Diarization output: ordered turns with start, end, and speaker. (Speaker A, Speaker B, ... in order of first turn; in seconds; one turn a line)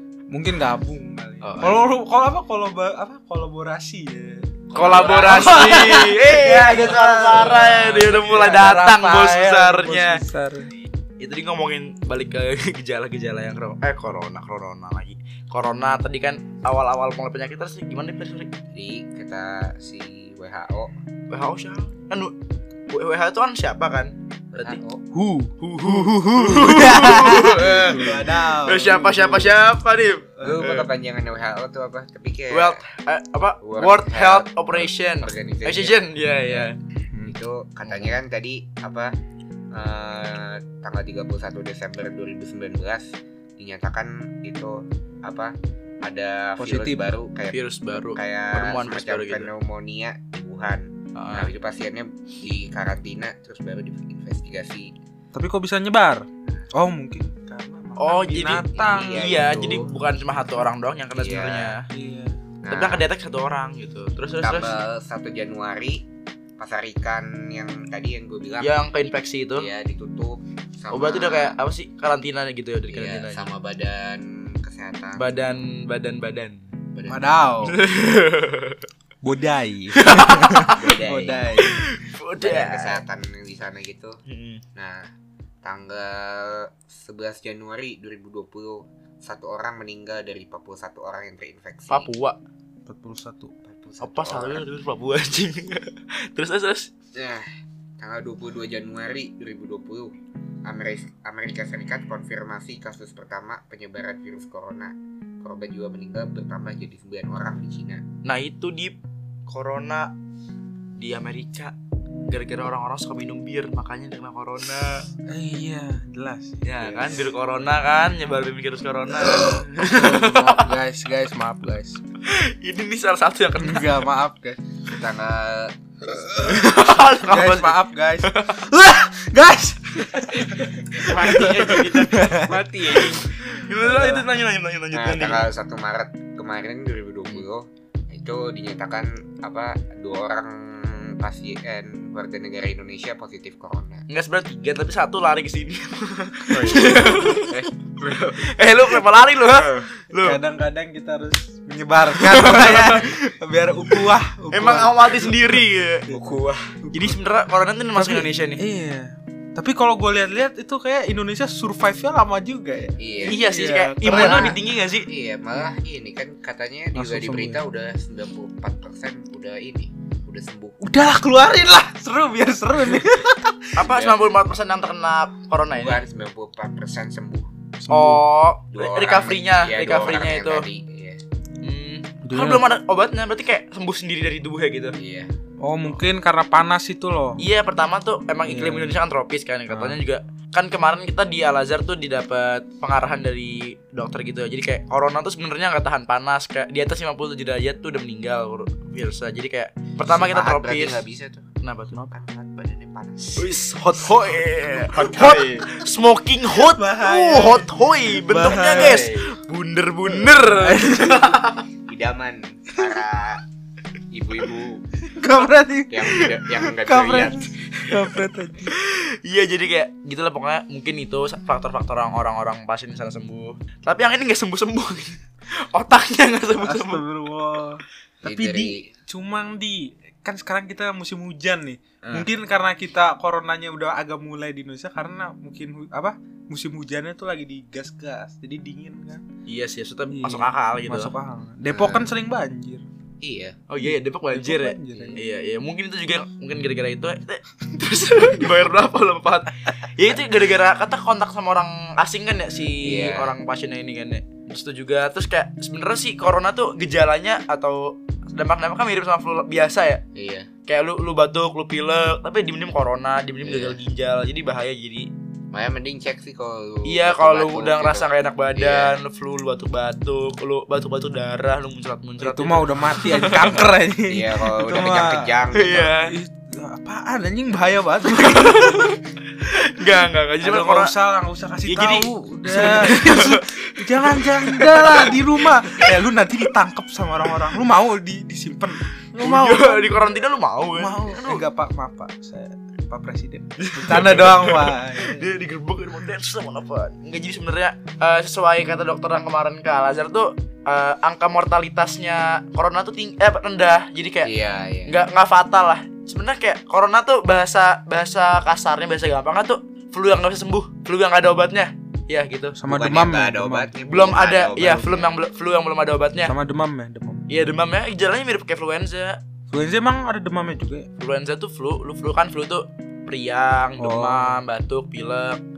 Speaker A: 0.3-10.7
Speaker B: 1.4-1.8
Speaker C: 4.7-5.9
Speaker B: 4.7-10.2
Speaker B: 11.2-18.5
Speaker C: 18.7-20.9
Speaker B: 21.3-22.3
Speaker B: 22.9-24.8
Speaker C: 24.6-25.1
Speaker A: 25.1-29.6
Speaker B: 25.6-30.9
Speaker C: 27.2-28.2
Speaker C: 30.4-32.8
Speaker B: 32.5-36.8
Speaker C: 33.6-36.0
Speaker C: 37.2-39.1
Speaker B: 37.9-38.1
Speaker C: 39.7-54.9
Speaker A: 46.6-47.1
Speaker B: 47.5-49.5
Speaker B: 51.1-51.5
Speaker A: 55.3-59.3
Speaker B: 58.0-61.9
Speaker C: 58.7-59.9
Speaker C: 61.2-61.8
Speaker A: 61.9-62.4
Speaker C: 62.6-63.1
Speaker B: 62.7-64.7
Speaker C: 64.4-66.0
Speaker C: 66.6-68.8
Speaker B: 68.6-69.7
Speaker C: 69.5-71.6
Speaker B: 70.9-73.5
Speaker C: 72.9-75.5
Speaker B: 75.2-76.6
Speaker C: 76.9-77.2
Speaker A: 77.1-77.8
Speaker B: 77.6-78.9
Speaker A: 79.2-81.8
Speaker B: 79.9-80.9
Speaker C: 80.7-81.7
Speaker B: 81.6-83.0
Speaker C: 82.4-84.2
Speaker B: 84.3-84.6
Speaker C: 84.8-85.1
Speaker C: 85.6-92.1
Speaker B: 91.9-92.4
Speaker A: 92.9-93.5
Speaker C: 93.6-94.7
Speaker B: 94.0-96.9
Speaker C: 97.2-97.5
Speaker C: 98.0-100.1
Speaker C: 100.7-108.0
Speaker B: 108.2-109.0
Speaker B: 109.5-110.1
Speaker B: 111.0-111.8
Speaker B: 112.3-115.1
Speaker A: 115.2-117.2
Speaker B: 116.6-120.7
Speaker A: 119.2-122.0
Speaker B: 122.2-124.0
Speaker A: 123.6-124.6
Speaker C: 124.9-125.8
Speaker A: 126.1-134.3
Speaker B: 126.4-128.6
Speaker B: 130.2-135.5
Speaker C: 131.1-133.2
Speaker C: 134.9-144.1
Speaker B: 144.1-150.4
Speaker C: 146.5-148.5
Speaker C: 149.4-149.8
Speaker A: 150.2-155.5
Speaker B: 152.1-153.1
Speaker B: 154.5-156.1
Speaker C: 156.1-156.8
Speaker A: 156.8-157.2
Speaker B: 156.9-158.6
Speaker A: 157.9-164.6
Speaker C: 163.0-163.4
Speaker B: 163.3-165.1
Speaker C: 164.0-170.8
Speaker A: 166.9-167.6
Speaker A: 170.8-173.7
Speaker B: 173.8-176.0
Speaker C: 173.8-174.2
Speaker C: 175.7-177.5
Speaker A: 177.8-178.2
Speaker B: 177.9-180.6
Speaker C: 178.7-181.2
Speaker B: 181.6-185.0
Speaker A: 182.2-182.6
Speaker C: 185.0-185.3
Speaker A: 185.6-187.4
Speaker B: 187.4-201.0
Speaker A: 188.5-189.0
Speaker A: 189.7-190.0
Speaker C: 200.1-201.5
Speaker B: 201.6-202.1
Speaker C: 202.1-203.5
Speaker B: 203.4-211.7
Speaker C: 204.8-205.7
Speaker A: 206.5-209.1
Speaker C: 208.4-209.3
Speaker A: 210.1-211.4
Speaker C: 211.9-213.4
Speaker C: 214.1-214.8
Speaker A: 215.1-218.8
Speaker C: 215.9-217.5
Speaker B: 218.7-225.2
Speaker B: 225.7-227.0
Speaker A: 226.6-239.2
Speaker C: 228.2-228.9
Speaker C: 232.0-232.3
Speaker B: 239.5-241.1
Speaker A: 240.1-242.8
Speaker C: 241.7-242.1
Speaker C: 243.2-243.6
Speaker B: 243.7-260.0
Speaker A: 243.8-245.2
Speaker C: 252.8-253.3
Speaker C: 260.1-260.5
Speaker B: 260.7-265.1
Speaker C: 263.4-263.8
Speaker C: 265.5-268.9
Speaker B: 266.9-273.6
Speaker A: 272.2-275.4
Speaker C: 274.1-275.9
Speaker B: 275.5-276.1
Speaker A: 276.0-279.0
Speaker B: 278.1-280.9
Speaker A: 280.4-290.2
Speaker B: 281.6-285.9
Speaker B: 289.2-291.4
Speaker A: 290.7-295.3
Speaker B: 293.6-304.3
Speaker C: 304.2-305.0
Speaker B: 304.9-312.6
Speaker A: 312.6-313.7
Speaker C: 312.7-315.2
Speaker B: 313.9-316.3
Speaker A: 316.2-317.2
Speaker B: 317.3-319.2
Speaker A: 319.5-320.9
Speaker B: 321.0-325.4
Speaker A: 323.8-324.4